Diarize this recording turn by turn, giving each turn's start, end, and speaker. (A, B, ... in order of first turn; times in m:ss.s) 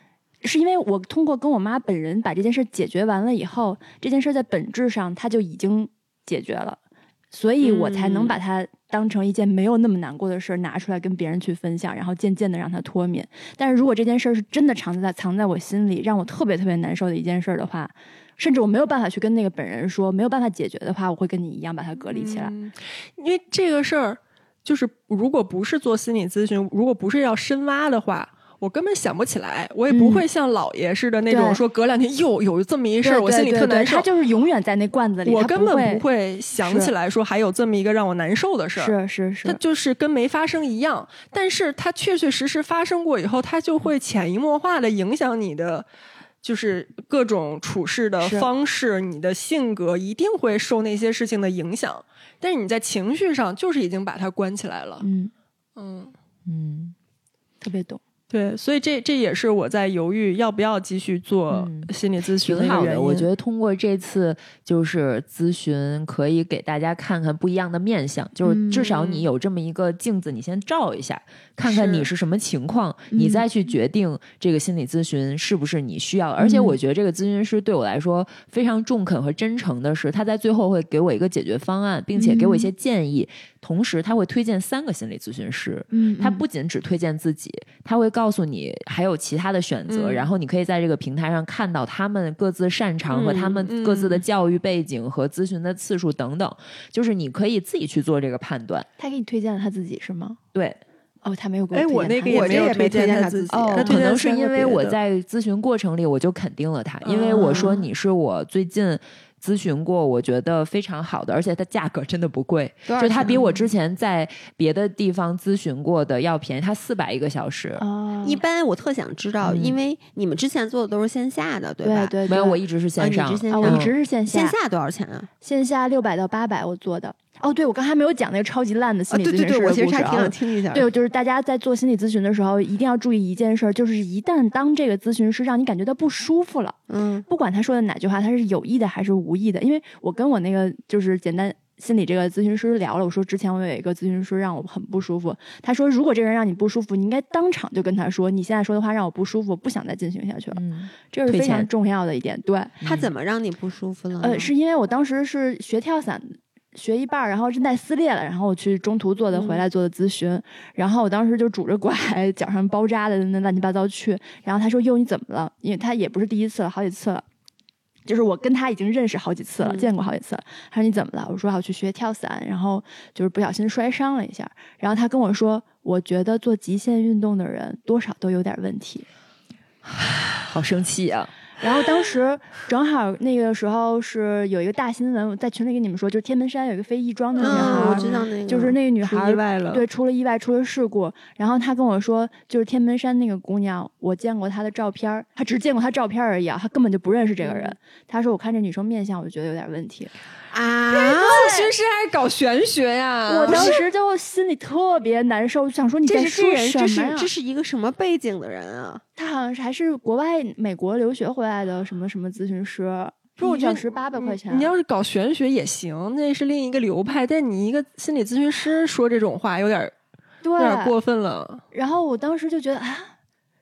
0:00.4-0:06.8 A
0:07.3-0:22.6 A
0:07.6-0:08.4 B
0:22.1-0:34.1 C
0:29.9-0:30.2 A
0:31.3-0:31.6 A
0:33.0-0:36.0 A
0:35.2-0:38.9 C
0:36.6-0:36.9 A
0:38.8-0:39.6 A
0:39.4-0:45.9 C
0:46.4-0:55.0 C
0:48.2-0:48.5 A
0:55.0-0:55.3 A
0:55.8-0:56.1 C
0:56.5-0:56.9 D
0:57.6-0:58.0 A
0:58.3-1:03.3 C
1:01.5-1:01.9 D
1:02.4-1:38.9 D
1:08.4-1:08.9 A
1:08.8-1:09.2 C
1:11.6-1:12.1 C
1:13.1-1:13.4 A
1:16.4-1:16.8 A
1:22.2-1:22.7 A
1:25.9-1:26.4 A
1:29.9-1:30.3 C
1:33.1-1:33.7 B
1:33.7-1:34.2 C
1:39.0-1:40.4 A
1:40.5-1:40.8 D
1:41.2-1:42.7 A
1:41.7-1:45.0 C
1:42.3-1:44.0 B
1:43.5-1:44.4 A
1:43.8-1:57.8 D
1:47.1-1:47.8 B
1:47.1-1:47.8 A
1:52.9-1:53.4 B
1:53.2-1:53.7 A
1:57.8-1:58.4 A
1:58.2-2:02.2 B
1:59.4-1:59.8 D
2:01.8-2:02.6 A
2:02.3-2:04.0 D
2:03.0-2:05.3 B
2:03.5-2:04.6 A
2:05.4-2:32.8 A
2:09.1-2:10.9 B
2:16.9-2:17.3 B
2:30.5-2:31.7 D
2:32.8-2:33.1 D
2:32.8-2:34.5 B
2:34.2-2:47.2 A
2:39.3-2:39.6 B
2:48.1-2:59.1 A
2:49.6-2:49.9 B
3:00.4-3:01.3 D
3:01.6-3:20.1 A
3:07.4-3:08.2 C
3:07.4-3:08.8 B
3:09.1-3:09.8 C
3:17.4-3:17.8 B
3:20.5-3:21.7 B
3:20.9-3:23.8 C
3:23.3-3:27.3 A
3:23.5-3:23.8 B
3:26.1-3:29.0 B
3:29.2-3:34.7 A
3:33.4-3:39.9 C
3:40.4-3:40.9 A
3:40.6-3:41.6 C
3:41.7-3:43.1 A